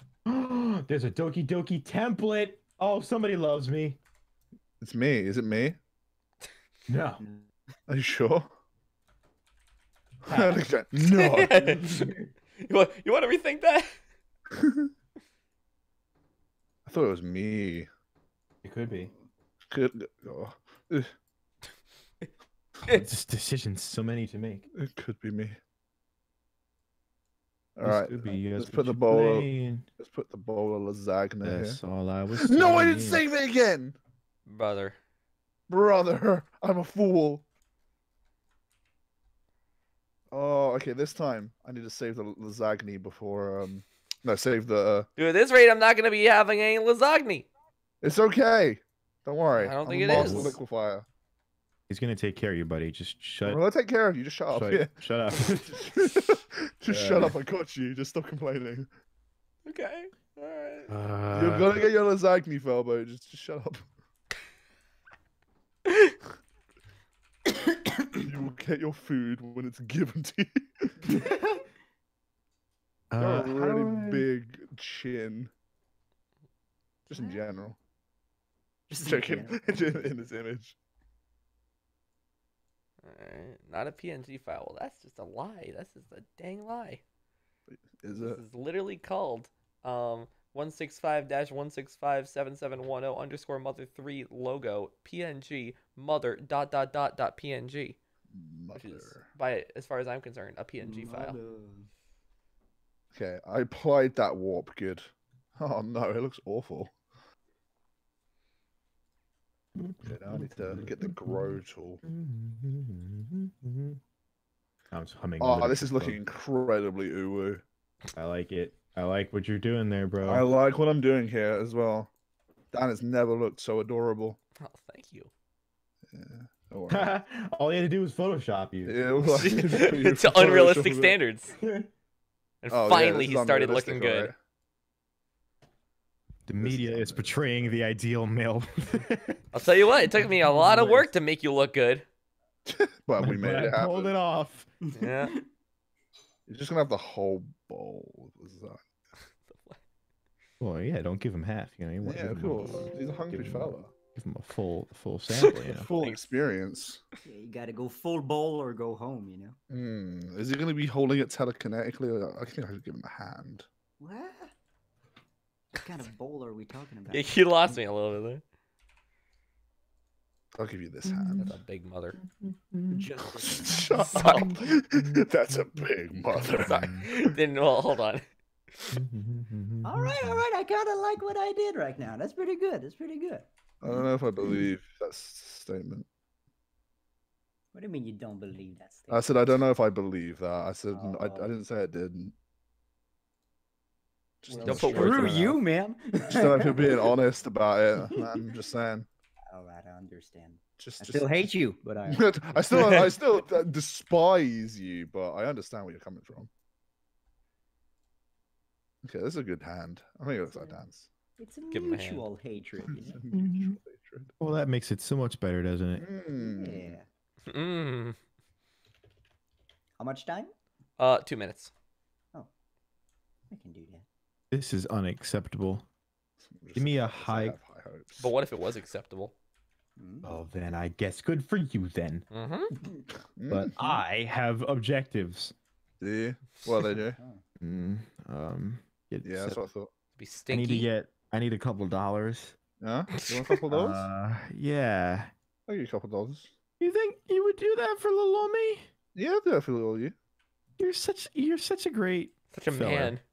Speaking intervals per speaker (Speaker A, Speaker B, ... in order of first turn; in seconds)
Speaker A: 0.3-4.0, 6.9-7.2, 10.3-10.6, 11.8-12.3, 18.6-19.1, 22.9-24.6, 27.8-29.9, 31.4-33.2, 50.1-50.6, 51.9-53.6, 54.5-56.3, 56.9-57.4, 60.9-61.9, 71.2-71.6, 73.1-74.2, 109.8-114.0, 114.9-116.2, 118.1-120.5, 126.9-129.6, 131.6-131.9, 136.5-139.4, 140.2-141.1, 143.2-144.7, 150.6-155.9, 171.1-171.6, 172.2-173.1, 173.7-177.1, 178.9-180.4, 194.6-195.6, 213.3-213.8, 214.4-216.1, 224.5-225.9, 226.8-227.6, 230.2-232.2, 233.5-235.5, 237.6-239.6, 240.5-242.6, 243.7-245.3, 246.8-248.9, 250.8-253.2
Speaker B: 4.8-5.8, 7.9-8.5, 10.3-11.8, 14.5-14.9, 16.9-17.9, 19.7-21.1, 24.8-25.6, 27.8-29.5, 30.0-31.8, 32.4-34.0, 35.7-37.5, 40.3-45.1, 48.0-51.1, 53.4-54.9, 55.8-58.9, 61.3-63.9, 68.2-70.9, 73.2-75.5, 77.1-77.8, 79.0-80.8, 88.0-88.4, 98.3-99.2, 103.1-107.0, 110.0-112.0, 115.4-117.6, 120.2-122.1, 122.7-124.4, 126.1-127.1, 128.8-131.2, 132.7-134.3, 136.6-137.4, 142.7-144.1, 146.5-148.8, 152.0-153.9, 155.5-157.0, 159.7-163.7, 170.6-171.5, 173.4-177.3, 183.8-186.1, 189.1-192.3, 194.4-195.2, 196.3-199.1, 200.8-201.5, 202.1-206.5, 209.0-211.1, 212.9-214.3, 216.0-217.0, 226.5-228.3, 233.4-233.7, 236.0-237.2, 239.2-239.9, 242.8-244.1, 245.7-246.5, 249.2-250.2
Speaker C: 11.1-13.9, 34.5-35.0, 45.2-47.5, 49.6-50.6, 59.6-60.9, 65.9-66.1, 83.0-87.0, 88.2-98.0, 98.8-101.4, 124.6-125.3, 129.4-131.6, 132.6-134.3, 139.5-142.1, 145.0-145.3, 149.5-149.8, 155.5-156.3, 167.1-168.4, 171.4-172.2, 173.9-174.5, 176.5-178.3, 194.7-195.5, 211.7-212.3, 217.5-218.2, 221.0-221.7, 228.2-229.3, 232.3-232.7, 240.2-240.9, 243.2-243.6, 252.5-253.2
Speaker D: 77.1-77.4, 78.9-80.1, 100.8-101.9, 144.9-145.4, 157.2-159.6, 164.0-164.5, 165.8-167.3, 172.9-173.8, 179.8-183.5, 187.7-189.3, 190.9-191.5, 194.5-197.1, 199.5-203.1, 210.5-210.8, 211.4-213.2, 216.4-217.1, 220.0-220.5, 223.5-224.0, 230.0-230.3